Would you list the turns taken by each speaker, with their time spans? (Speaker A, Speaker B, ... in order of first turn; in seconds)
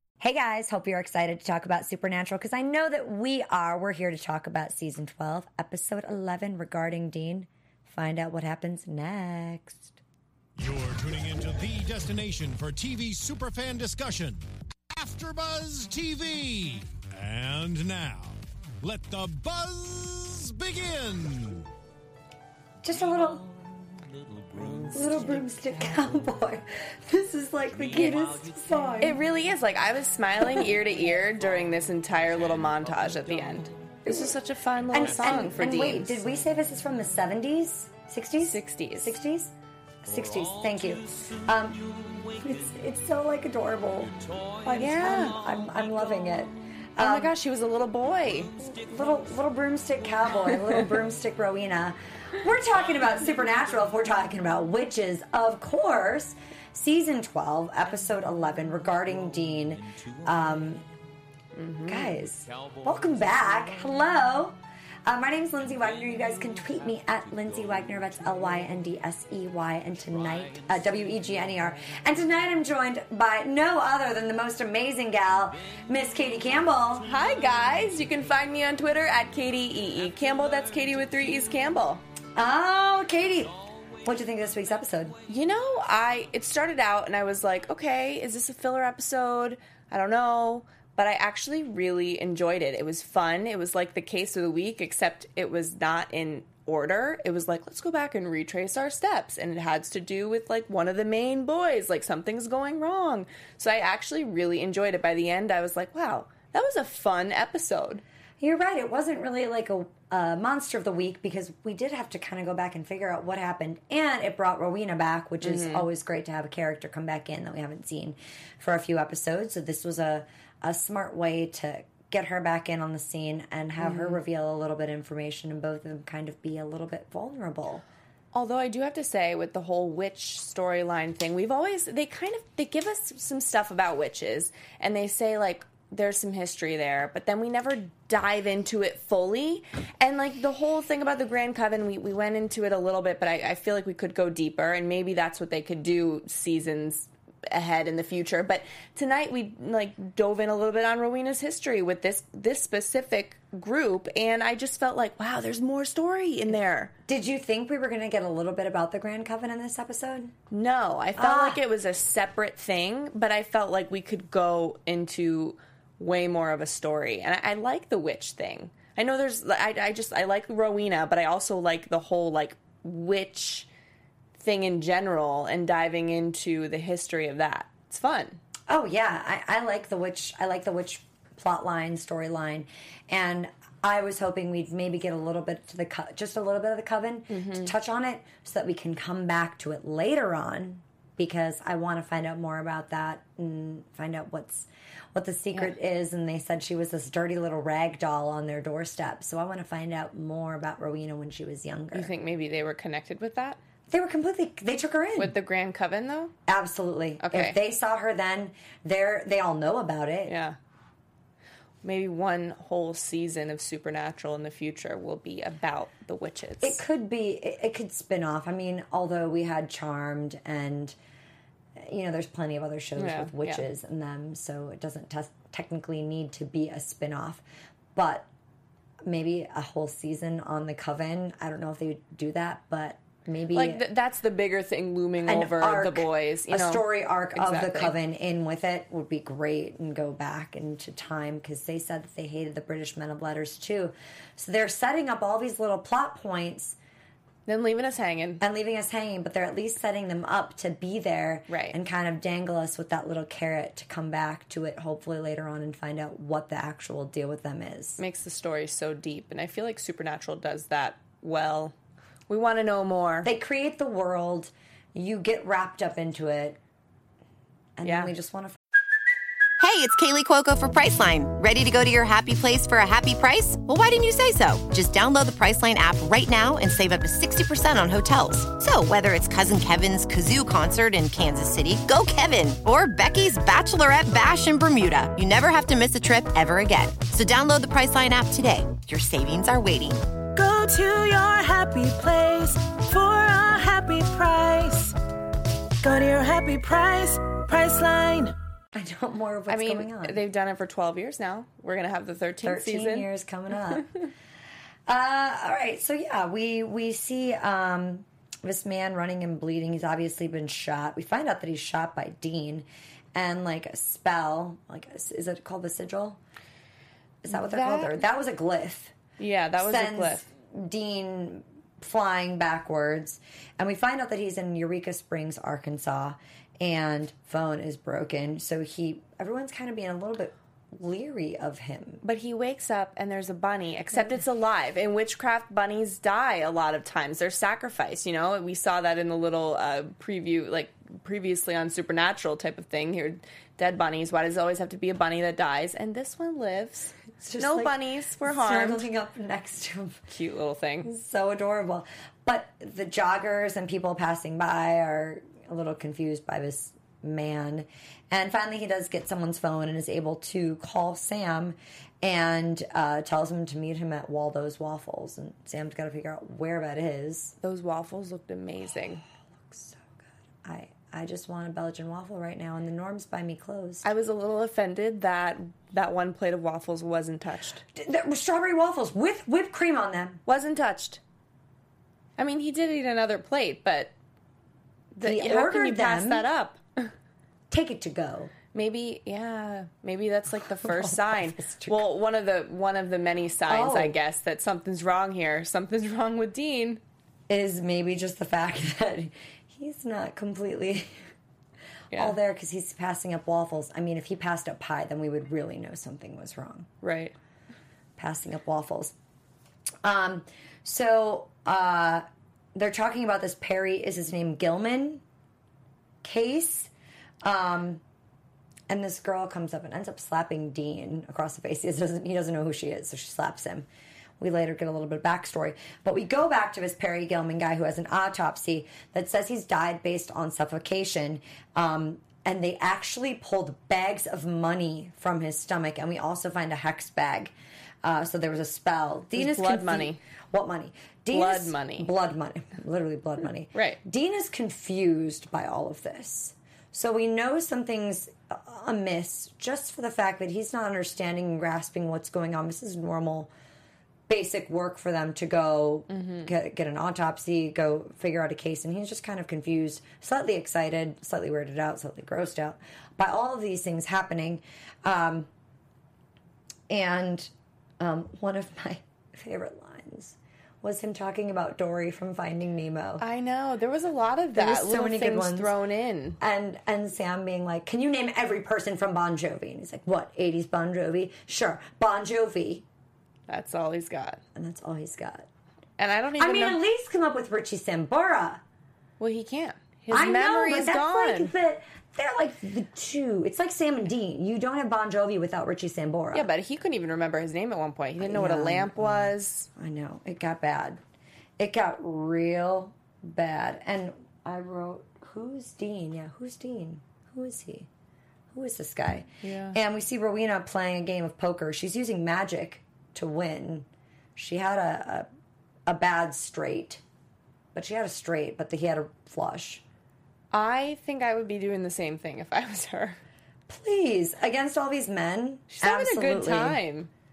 Speaker A: 0.2-10.0, 22.8-23.6, 24.9-29.2, 34.1-34.4, 34.9-39.5, 40.0-47.3, 48.6-60.8, 61.9-77.1, 82.3-85.2, 108.4-127.8, 157.1-160.3, 161.2-161.6, 178.7-202.1, 203.9-205.4, 206.5-210.3, 216.6-220.9, 221.8-227.4, 227.9-228.3, 229.1-233.8, 235.2-246.8, 248.4-258.0, 263.2-266.6, 267.8-268.6, 298.7-300.2, 302.4-303.9, 304.9-316.2, 317.2-318.9, 319.6-332.0, 347.2-350.0, 350.8-367.4, 369.3-373.9, 377.8-380.2, 385.0-386.3, 387.5-388.3, 390.6-391.8, 393.5-394.0, 397.3-400.9, 401.9-406.7, 408.0-408.9, 409.8-415.0, 416.0-416.7, 417.2-417.8, 418.7-423.7, 424.2-453.3, 454.1-465.3, 466.7-473.0, 474.4-475.5, 476.2-482.6, 484.4-485.3, 486.2-488.4, 489.9-496.3, 498.0-500.8, 501.4-507.7, 508.3-515.1, 515.7-516.8, 517.5-519.6, 523.5-526.6
Speaker B: 10.6-21.7, 24.6-24.9
Speaker C: 29.0-36.2, 38.4-39.1, 44.7-45.4, 47.0-48.6, 61.5-62.2, 77.0-82.0, 85.3-108.0, 115.4-115.9, 123.8-124.2, 128.3-156.9, 160.5-173.7, 174.4-178.4, 187.3-187.7, 201.9-203.6, 205.2-206.3, 207.2-207.6, 210.3-210.6, 211.8-216.8, 223.0-223.6, 233.5-237.9, 247.5-248.4, 251.5-251.8, 258.0-261.7, 262.3-263.3, 267.8-268.1, 299.5-303.1, 317.3-318.0, 319.2-320.3, 332.0-348.9, 350.1-350.9, 367.4-369.0, 373.8-377.6, 380.3-381.0, 382.2-383.9, 384.9-386.9, 388.5-396.8, 401.9-402.2, 406.8-407.1, 439.1-440.0, 441.1-441.9, 443.5-443.8, 455.9-456.3, 473.0-476.2, 483.3-484.2, 485.8-486.6, 489.0-491.3, 496.1-499.5, 509.2-509.6, 520.3-523.0, 525.5-526.9
Speaker D: 269.6-290.0
Speaker E: 290.4-294.9, 295.8-298.3